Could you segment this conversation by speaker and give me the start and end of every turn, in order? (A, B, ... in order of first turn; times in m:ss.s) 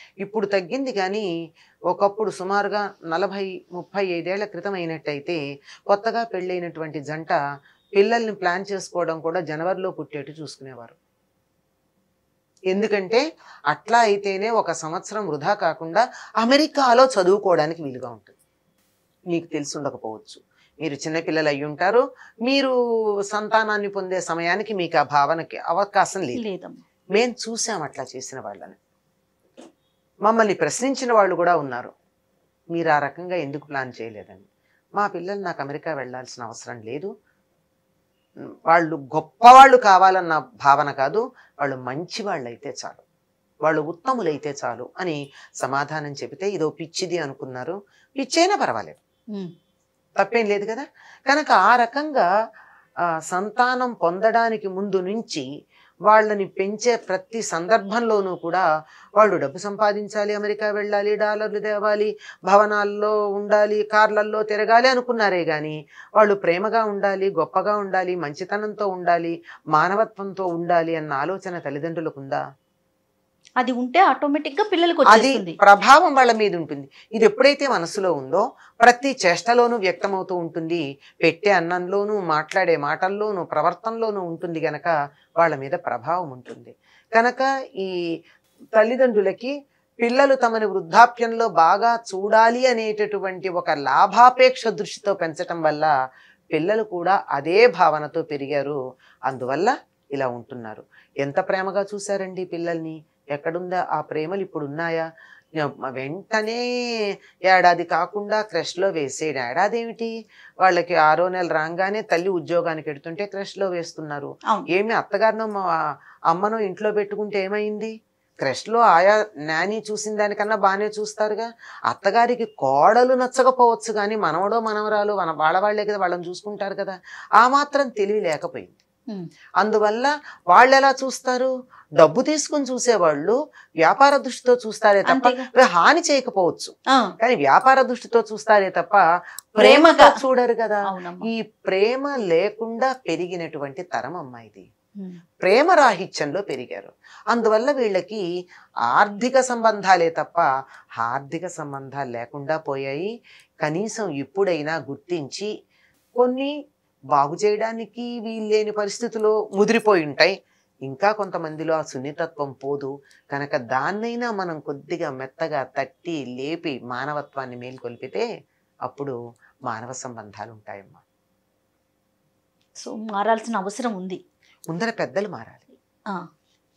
0:00.2-0:01.2 A
0:01.9-0:07.4 A
0:08.0-0:10.9 A
0:12.7-0:18.3 A
0:19.3-0:22.7 A
0:23.3-0:26.4 A
0:26.4-0:26.8 B
0:27.1-0:28.8 A
0:30.2-0:31.9 A
0:32.7-0:34.4 A
0:35.0-0:37.1 A
0:38.7-0:43.0 A
0:43.6-0:49.0 A
0:50.2-0:52.2 A
0:53.3-0:55.4 A
0:56.1-0:58.6 A
0:59.2-1:12.4 A
1:13.6-1:15.5 B
1:15.1-1:27.9 A
1:28.8-1:35.9 A
1:36.5-1:45.0 A
1:45.6-1:46.6 A
1:47.5-1:50.1 A
1:50.6-1:55.6 A
1:56.3-2:08.8 A
2:09.6-2:19.0 A
2:15.1-2:15.4 B
2:19.5-2:24.7 A
2:19.6-2:20.1 B
2:20.9-2:21.3 B
2:25.4-2:28.2 A
2:28.9-2:30.5 A
2:31.0-2:33.1 A
2:33.6-2:35.5 A
2:36.2-2:36.5 A
2:37.1-2:40.3 A
2:40.9-2:48.2 A
2:48.9-2:49.2 A
2:49.7-2:51.0 A
2:52.8-2:54.2 B
2:54.7-2:55.6 A